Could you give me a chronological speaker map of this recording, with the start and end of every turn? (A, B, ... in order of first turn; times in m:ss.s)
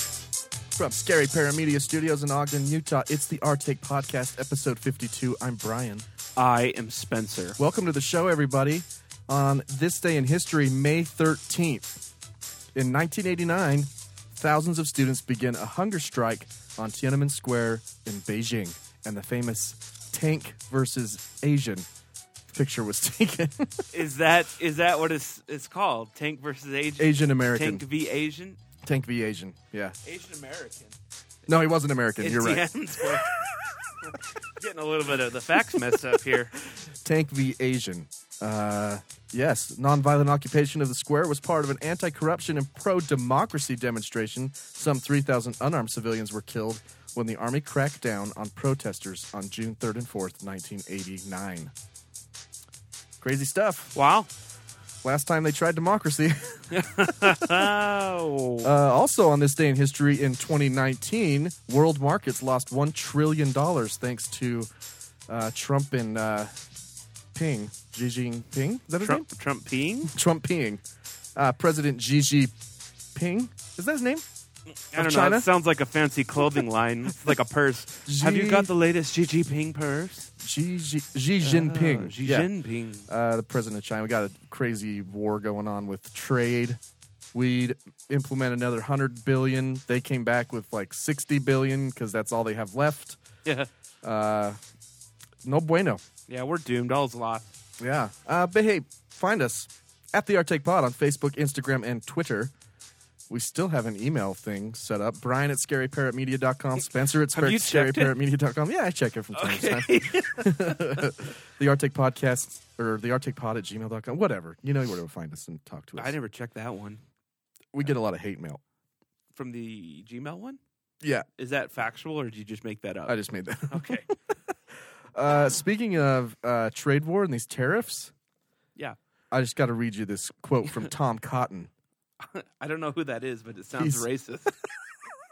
0:00.8-0:06.1 A
0:06.4-0:07.6 B
0:07.6-0:12.0 A
0:12.8-0:21.9 A
0:22.5-0:23.8 A
0:23.9-0:28.6 B
0:27.0-0:27.8 A
0:28.8-0:30.0 A
0:30.0-0:31.0 B
0:31.5-0:33.5 A
0:32.2-0:33.3 B
0:34.0-0:36.6 B
0:36.7-0:51.7 A
0:53.2-0:54.0 A
0:54.0-0:54.3 B
0:55.0-0:57.7 A
0:56.7-0:58.7 B
0:58.6-1:04.7 A
1:05.3-1:06.6 A
1:07.3-1:09.3 A
1:09.0-1:10.1 B
1:10.1-1:10.8 A
1:11.4-1:12.5 A
1:13.1-1:14.3 A
1:14.9-1:20.3 B
1:14.9-1:15.5 A
1:18.0-1:18.7 A
1:20.4-1:22.5 A
1:21.4-1:23.1 B
1:23.1-1:26.8 A
1:27.3-1:33.2 A
1:34.0-1:34.6 A
1:35.4-1:36.0 A
1:36.3-1:37.5 B
1:37.8-1:42.5 A
1:43.3-1:56.2 A
1:47.3-1:48.2 B
1:49.4-1:51.2 B
1:56.0-1:57.0 B
1:57.7-1:58.6 A
1:59.3-2:00.6 B
2:01.0-2:01.3 A
2:01.4-2:04.1 B
2:03.1-2:04.1 A
2:05.1-2:08.1 A
2:09.3-2:11.7 A
2:12.2-2:14.6 B
2:13.8-2:14.1 A